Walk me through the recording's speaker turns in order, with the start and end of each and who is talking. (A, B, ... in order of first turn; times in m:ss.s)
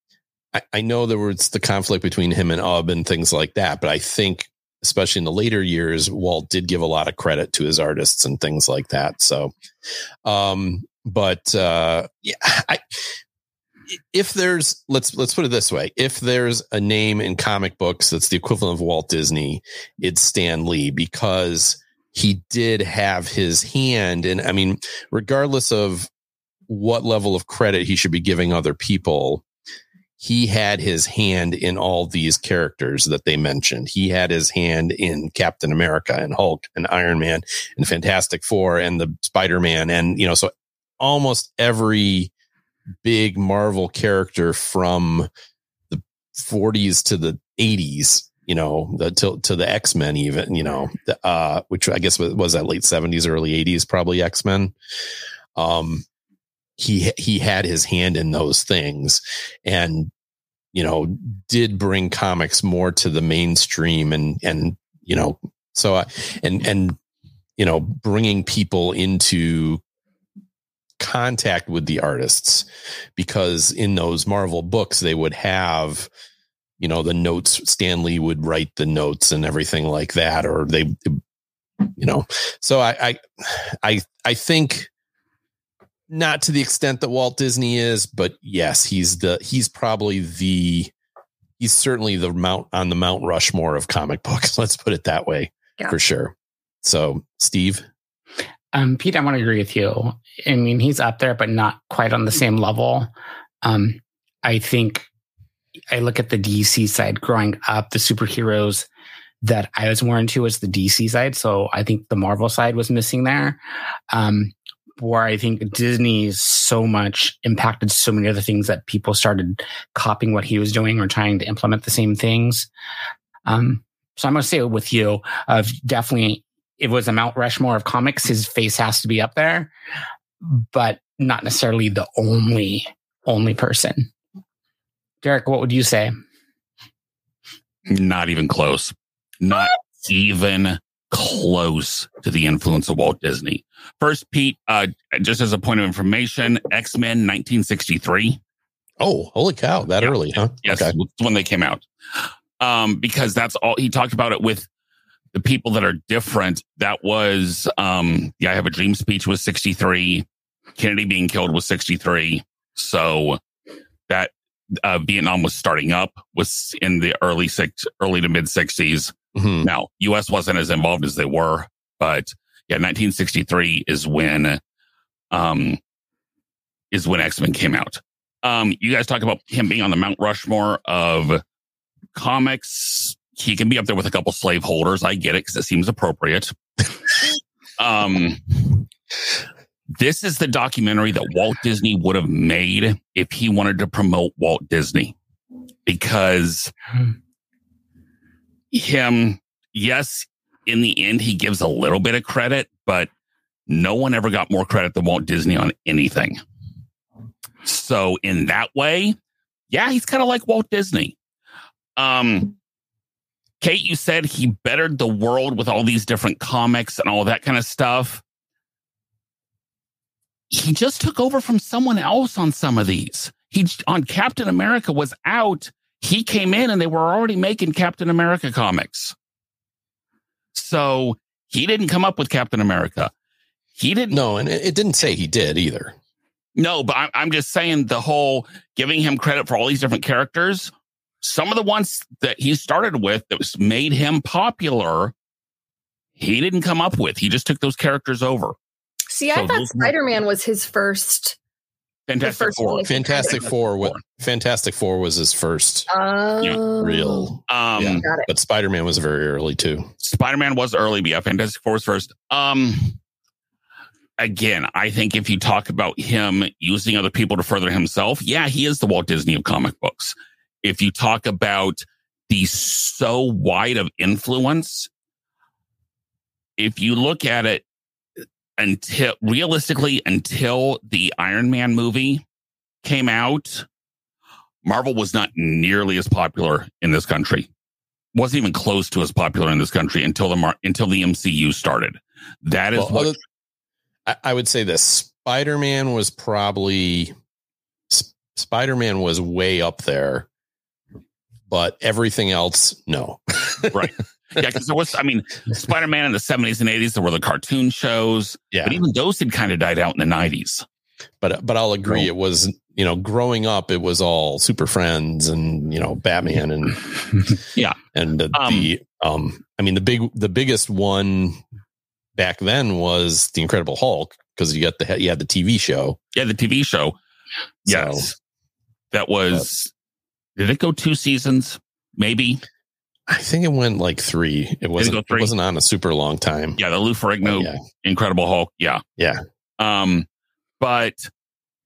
0:00.6-0:09.5 A
0:10.2-0:13.1 A
0:14.1-0:26.1 A
0:26.7-0:29.4 A
0:30.2-0:42.3 A
0:43.0-0:45.3 A
0:45.9-0:54.7 A
0:55.6-0:56.0 A
0:56.8-1:00.1 A
1:00.7-1:07.0 A
1:07.6-1:09.8 A
1:11.0-1:16.1 A
1:16.8-1:21.2 A
1:22.0-1:24.9 A
1:26.1-1:30.9 A
1:31.6-1:37.8 A
1:38.7-1:43.1 B
1:43.6-1:45.1 B
1:45.9-1:48.9 B
1:49.4-1:53.6 B
1:54.1-2:02.7 B
2:03.5-2:09.7 B
2:10.4-2:14.1 B
2:15.2-2:16.1 B
2:17.9-2:28.4 C
2:29.0-2:30.9 A
2:30.0-2:34.7 C
2:35.3-2:40.3 C
2:40.8-2:43.4 C
2:44.1-2:54.6 C
2:49.4-2:49.7 A
2:55.3-2:55.8 C
2:56.9-3:01.4 C
3:02.2-3:06.5 C
3:07.8-3:08.8 C
3:10.0-3:15.2 C
3:15.9-3:16.7 C
3:18.7-3:23.1 C
3:23.7-3:26.4 C
3:27.6-3:29.2 C
3:29.7-3:31.2 C
3:32.0-3:32.6 C
3:33.6-3:38.2 C
3:40.5-3:49.2 C
3:50.6-3:53.1 C
3:53.8-3:54.2 C
3:54.1-3:56.0 A
3:56.6-4:00.7 C
4:01.2-4:05.1 C
4:06.2-4:08.6 C
4:09.1-4:11.4 D
4:09.3-4:09.9 C
4:12.1-4:14.0 C
4:12.2-4:13.4 D
4:12.9-4:15.9 A
4:15.9-4:17.3 D
4:16.8-4:19.9 A
4:17.5-4:18.1 C
4:17.9-4:18.3 D
4:20.0-4:23.0 C
4:24.2-4:34.9 C
4:36.6-4:37.6 C
4:38.6-4:42.2 C
4:42.8-4:43.7 C
4:44.6-4:47.5 C
4:48.2-4:53.2 C
4:52.8-4:53.2 A
4:54.1-4:57.1 A
4:57.9-5:00.3 A
5:01.5-5:03.9 A
5:03.7-5:10.6 C
5:08.5-5:08.8 A
5:11.2-5:17.3 A
5:18.0-5:21.4 A
5:18.3-5:18.7 C
5:22.2-5:26.0 A
5:26.2-5:27.0 C
5:27.6-5:28.2 C
5:27.7-5:28.1 A
5:28.9-5:29.7 C
5:30.4-5:32.4 C
5:33.1-5:36.6 A
5:34.8-5:35.3 C
5:36.6-5:38.8 C
5:37.2-5:37.6 A
5:39.6-5:40.1 C
5:40.6-5:41.1 C